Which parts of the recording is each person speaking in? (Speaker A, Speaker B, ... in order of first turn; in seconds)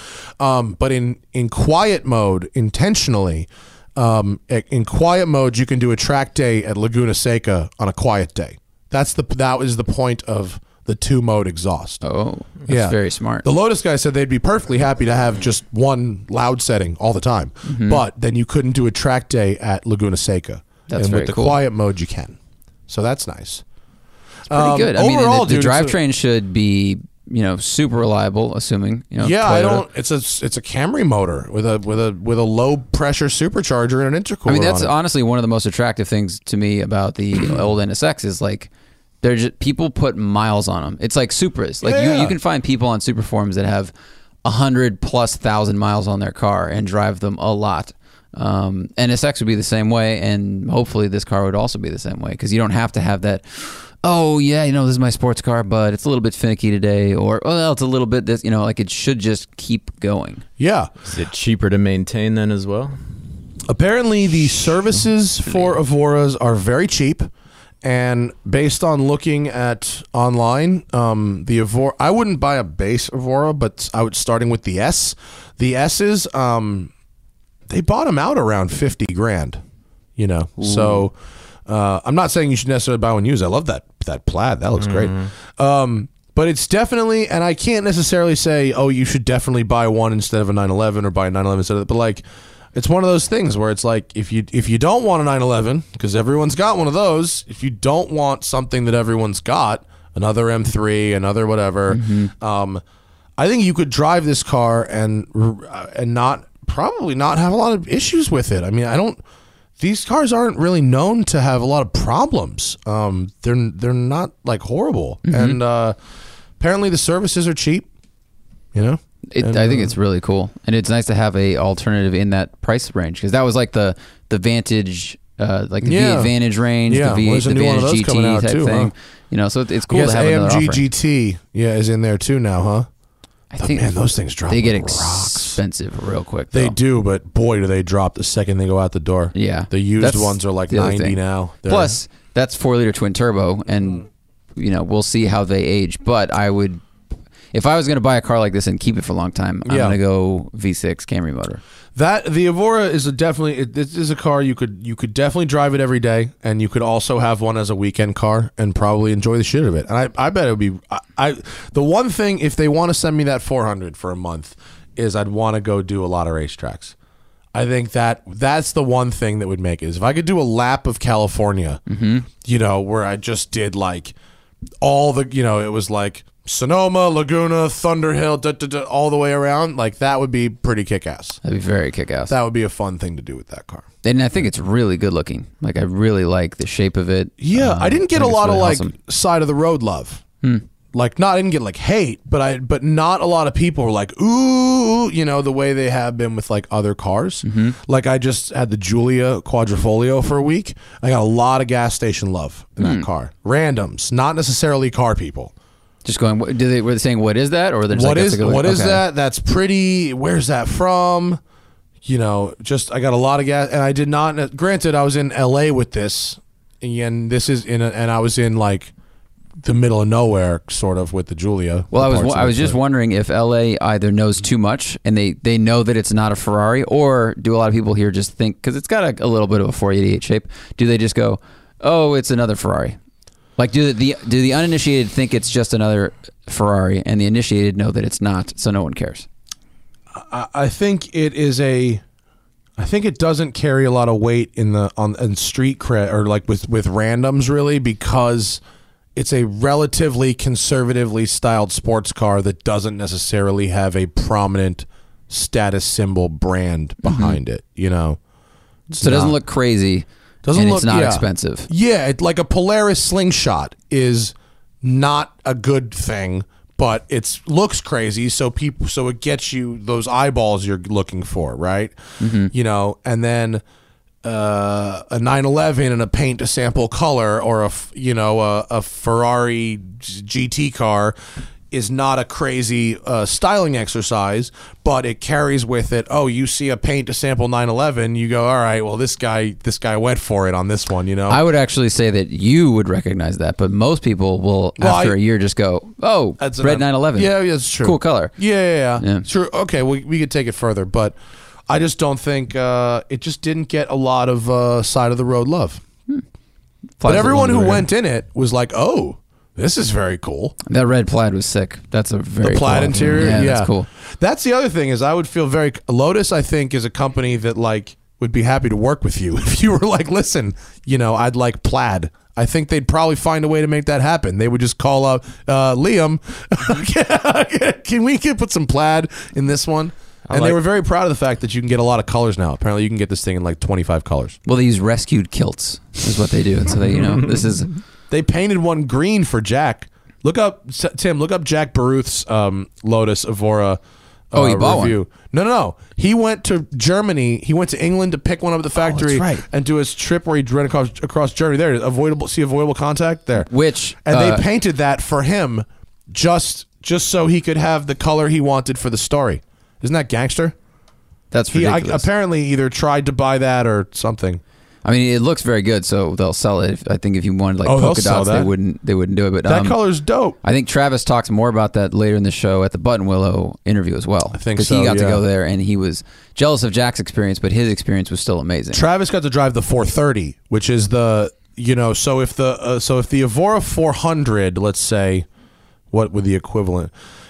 Speaker A: 0.4-12.0, 12.7-22.4, 22.9-23.6, 24.5-25.9, 29.2-34.9, 41.8-42.4, 60.6-60.9, 63.7-67.3, 67.8-76.9, 77.7-79.6, 80.2-81.1, 81.7-92.2, 92.7-102.8, 103.4-109.2, 109.8-116.0, 116.6-117.9, 118.7-119.9, 125.8-126.3, 126.9-128.9, 129.9-132.9, 133.6-135.6, 136.5-142.0, 149.6-150.0, 151.9-166.9, 167.5-171.8, 172.4-174.1, 174.8-181.4, 182.3-183.9, 187.4-190.2, 190.9-205.5, 207.9-211.4, 212.0-218.9, 219.6-222.8, 240.1-242.0, 242.8-248.6, 249.2-258.2, 258.9-259.4, 260.4-271.9, 272.5-273.6, 274.2-281.1, 281.7-291.4, 294.8-295.1, 296.4-301.2, 301.7-305.8, 307.0-310.6, 312.4-334.4, 338.1-343.8, 344.3-353.5, 354.0-360.5, 361.5-364.4, 367.6-368.5, 369.4-370.4, 374.3-375.2, 378.7-385.2, 385.9-386.9
Speaker B: 12.0-13.4, 17.7-18.0, 20.9-21.6, 24.5-29.8, 34.5-38.7, 39.2-43.9, 44.4-60.4, 80.6-81.0, 101.9-102.3, 115.3-115.6, 119.3-130.8, 133.5-136.8, 139.3-144.0, 144.6-146.8, 147.5-151.6, 171.9-172.3, 181.4-182.3, 184.0-188.9, 197.4-197.8, 202.8-203.1, 206.0-209.0, 221.9-233.0, 233.6-239.2, 257.0-257.4, 259.0-261.7, 272.2-272.5, 291.3-298.4, 299.0-299.2, 307.0-307.9, 310.6-313.9, 334.4-337.7, 344.3-344.9, 348.8-349.4, 353.4-354.4, 361.3-362.1, 364.8-369.8, 370.4-378.8
Speaker C: 61.0-63.0, 84.8-85.3